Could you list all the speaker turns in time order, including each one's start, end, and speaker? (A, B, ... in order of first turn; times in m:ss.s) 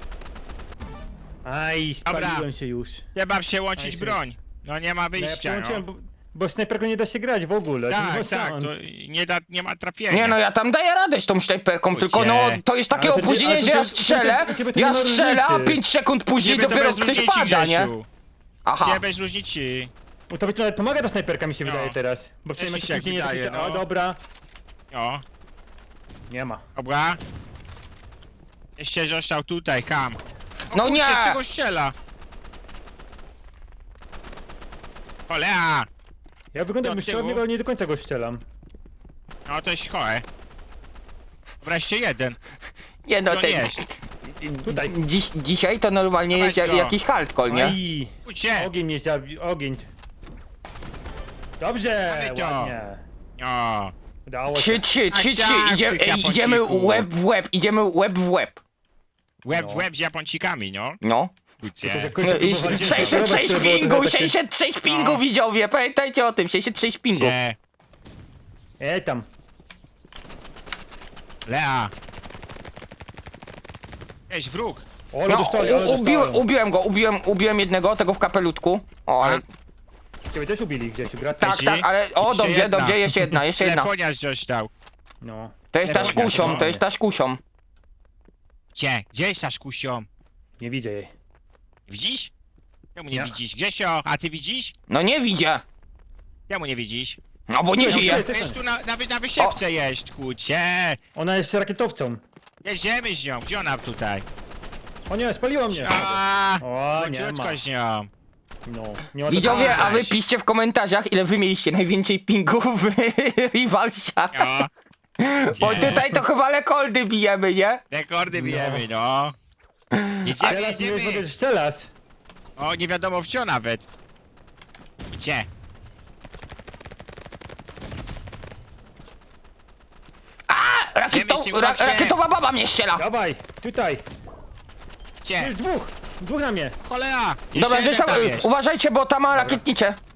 0:01.4-0:03.0 A
0:02.0-0:02.4 B
0:03.1-0:05.8 B
0:03.8-0:04.2 A
0:05.2-0:08.8 A
0:07.9-0:10.4 B
0:10.1-0:17.9 C
0:11.9-0:12.6 B
0:12.9-0:15.8 A
0:16.4-0:18.1 B
0:18.6-0:19.0 C
0:18.8-0:19.9 B
0:20.3-0:24.2 A
0:21.6-0:21.9 B
0:22.6-0:23.8 B
0:24.9-0:25.2 B
0:26.3-0:26.6 A
0:26.8-0:27.2 B
0:28.8-0:30.2 B
0:30.7-0:31.9 B
0:30.7-0:31.4 C
0:35.3-0:35.9 B
0:36.5-0:38.4 A
0:36.8-0:37.4 B
0:39.4-0:40.2 B
0:41.6-0:42.4 B
0:43.0-0:47.8 C
0:43.2-0:43.8 B
0:44.6-0:44.9 A
0:46.3-0:46.9 B
0:47.5-0:49.9 A
0:48.2-0:48.7 B
0:51.6-0:53.0 A
0:52.1-0:52.7 B
0:53.4-0:53.9 B
0:54.3-0:54.9 A
0:54.5-0:58.6 C
0:55.1-0:57.1 B
0:59.4-1:01.0 B
0:59.5-0:59.8 A
1:01.0-1:01.3 C
1:01.6-1:03.3 B
1:01.8-1:04.4 A
1:02.2-1:07.4 C
1:04.8-1:05.2 B
1:07.1-1:07.6 B
1:08.8-1:09.3 A
1:11.5-1:11.9 B
1:14.3-1:14.8 B
1:15.1-1:16.4 A
1:15.3-1:19.4 C
1:20.3-1:21.6 A
1:21.4-1:23.9 C
1:21.4-1:24.7 B
1:25.2-1:26.8 A
1:25.7-1:27.4 C
1:25.8-1:26.6 B
1:28.7-1:30.1 B
1:30.6-1:31.1 A
1:31.9-1:32.3 B
1:32.9-1:34.7 B
1:34.9-1:35.6 C
1:36.5-1:37.2 B
1:37.5-1:38.2 C
1:37.8-1:38.6 A
1:37.8-1:41.0 B
1:41.1-1:42.2 A
1:42.6-1:44.2 B
1:45.1-1:47.6 A
1:45.7-1:48.1 B
1:48.6-1:49.9 A
1:49.3-1:54.6 C
1:49.3-1:50.2 B
1:54.3-1:54.7 B
1:55.2-1:57.8 C
1:55.6-1:56.1 B
1:55.6-1:56.2 A
1:57.9-1:59.3 B
1:58.3-1:58.9 A
1:59.9-2:00.3 C
2:00.2-2:01.2 B
2:00.4-2:01.9 A
2:02.6-2:03.8 B
2:05.1-2:05.5 B
2:10.5-2:13.0 C
2:11.1-2:12.2 B
2:13.0-2:14.0 A
2:15.2-2:15.5 B
2:15.4-2:16.8 A
2:16.8-2:18.5 B
2:17.5-2:20.0 C
2:19.3-2:19.6 A